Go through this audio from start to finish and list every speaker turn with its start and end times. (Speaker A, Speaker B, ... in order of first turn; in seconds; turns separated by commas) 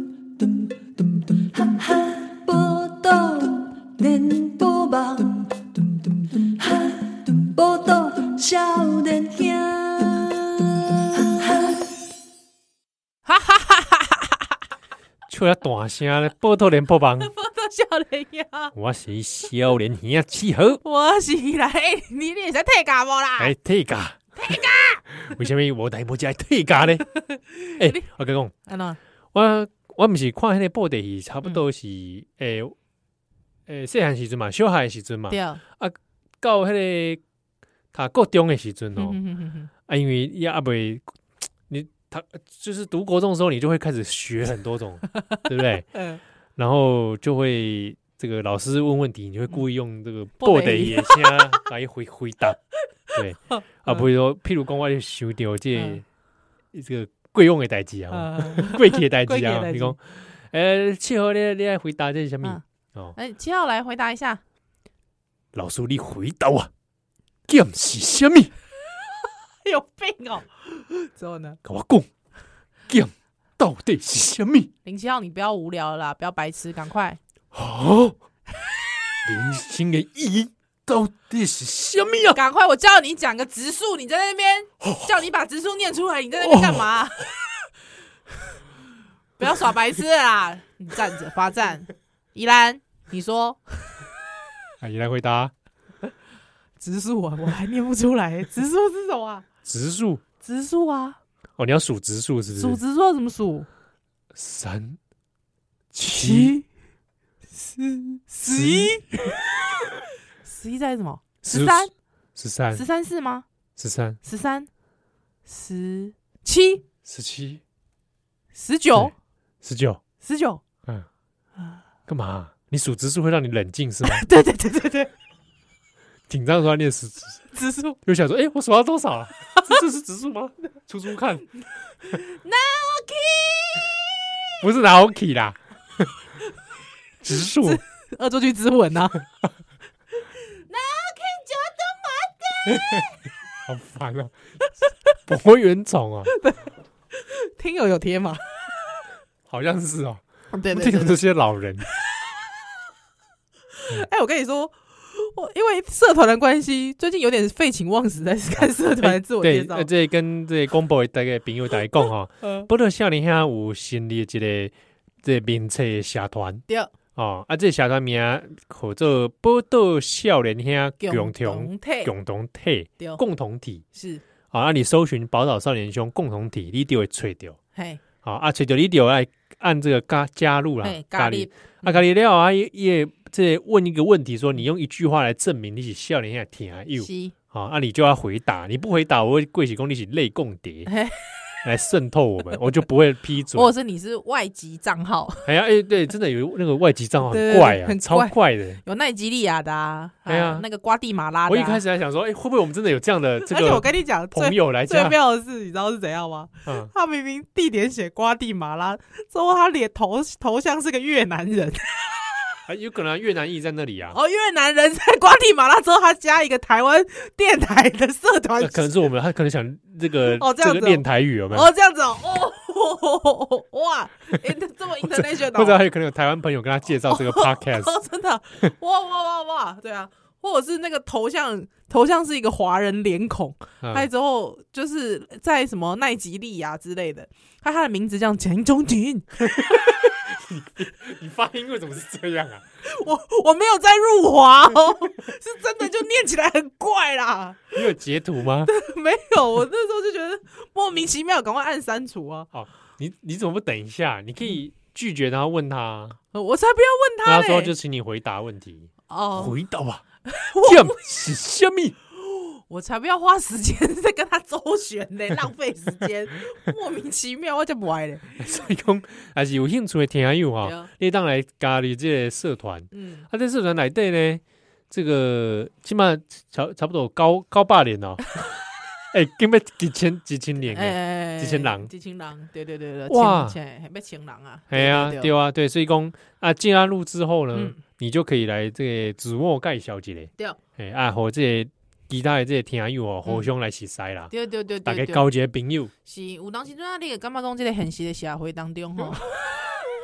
Speaker A: 0.4-11.8, Speaker B: 13.2-14.5, Speaker C: 15.3-17.3, Speaker B: 17.2-18.7, Speaker C: 18.7-20.8, Speaker B: 20.8-23.5, Speaker C: 23.4-24.2, Speaker B: 24.4-25.0, Speaker C: 25.2-27.1, Speaker B: 27.1-28.0, Speaker C: 27.8-28.5, Speaker B: 28.6-29.0, Speaker C: 29.3-32.8, Speaker C: 33.7-37.2, Speaker B: 35.3-35.6, Speaker C: 37.9-39.2, Speaker B: 39.0-39.7, Speaker C: 39.9-41.1, Speaker C: 41.7-45.9, Speaker B: 45.9-46.2, Speaker C: 46.6-52.6, Speaker B: 50.4-51.6, Speaker B: 53.1-54.0, Speaker C: 53.1-56.0, Speaker B: 55.7-56.0, Speaker C: 56.7-63.1, Speaker B: 58.1-60.0, Speaker B: 63.1-64.4, Speaker C: 65.5-66.7, Speaker C: 67.5-68.5, Speaker B: 69.6-71.6, Speaker C: 71.6-72.1, Speaker C: 72.9-74.7, Speaker B: 74.8-77.2, Speaker C: 77.5-78.2, Speaker C: 79.2-82.4, Speaker B: 82.3-87.3, Speaker C: 84.8-85.1, Speaker C: 86.4-86.9, Speaker B: 89.4-94.0, Speaker C: 94.8-95.5, Speaker B: 96.8-99.5, Speaker C: 99.6-100.2, Speaker B: 100.4-101.2, Speaker C: 101.6-102.8, Speaker B: 102.5-103.7, Speaker C: 104.3-105.0, Speaker C: 105.9-106.6, Speaker B: 106.1-106.6, Speaker B: 107.5-109.9, Speaker C: 108.5-109.0, Speaker B: 110.4-111.9, Speaker C: 111.4-112.8, Speaker B: 112.7-113.4, Speaker C: 113.8-114.2, Speaker B: 114.2-114.7, Speaker B: 115.5-116.8, Speaker C: 117.0-117.6, Speaker B: 118.5-119.1, Speaker C: 118.9-120.0, Speaker B: 120.2-120.6, Speaker C: 122.1-124.2, Speaker B: 124.0-125.1, Speaker C: 126.3-127.4, Speaker B: 127.5-128.0, Speaker C: 128.0-131.5, Speaker B: 129.5-129.8, Speaker B: 132.0-134.0, Speaker C: 134.6-136.1, Speaker C: 137.2-137.8, Speaker B: 137.3-139.2, Speaker B: 140.5-143.1, Speaker C: 142.7-143.1, Speaker C: 143.7-144.3, Speaker C: 145.3-146.3, Speaker B: 146.3-148.4, Speaker C: 149.5-151.8, Speaker B: 150.5-151.2, Speaker B: 153.8-159.9, Speaker C: 158.6-173.8, Speaker B: 162.4-162.7, Speaker B: 171.0-172.1, Speaker B: 173.9-174.2, Speaker C: 174.5-177.6, Speaker B: 177.7-178.0, Speaker C: 178.2-190.9, Speaker B: 180.8-182.0, Speaker B: 187.0-187.3, Speaker B: 190.8-191.6, Speaker C: 191.6-193.7, Speaker B: 193.5-195.5, Speaker C: 195.4-198.8, Speaker B: 197.3-201.8, Speaker C: 200.3-200.7, Speaker C: 201.5-205.2, Speaker B: 203.4-212.6, Speaker C: 206.7-206.9, Speaker C: 212.7-214.2, Speaker B: 214.1-218.9, Speaker C: 218.6-221.7, Speaker B: 220.2-225.8, Speaker C: 225.0-227.9, Speaker B: 227.1-240.1, Speaker C: 233.8-234.1, Speaker C: 239.5-242.6, Speaker B: 242.8-247.8, Speaker C: 247.8-248.7, Speaker B: 248.6-252.5, Speaker C: 252.5-256.2, Speaker B: 256.3-257.7, Speaker C: 257.2-260.0, Speaker B: 259.1-259.6, Speaker B: 260.2-261.0, Speaker C: 260.6-261.9, Speaker B: 262.2-268.5, Speaker C: 268.4-278.4, Speaker B: 270.6-270.9, Speaker B: 272.9-273.2, Speaker C: 279.1-281.9, Speaker B: 280.7-285.3, Speaker C: 283.1-283.6, Speaker C: 284.7-294.3, Speaker B: 287.5-287.8, Speaker B: 294.3-295.3, Speaker C: 294.8-295.9, Speaker B: 296.0-299.6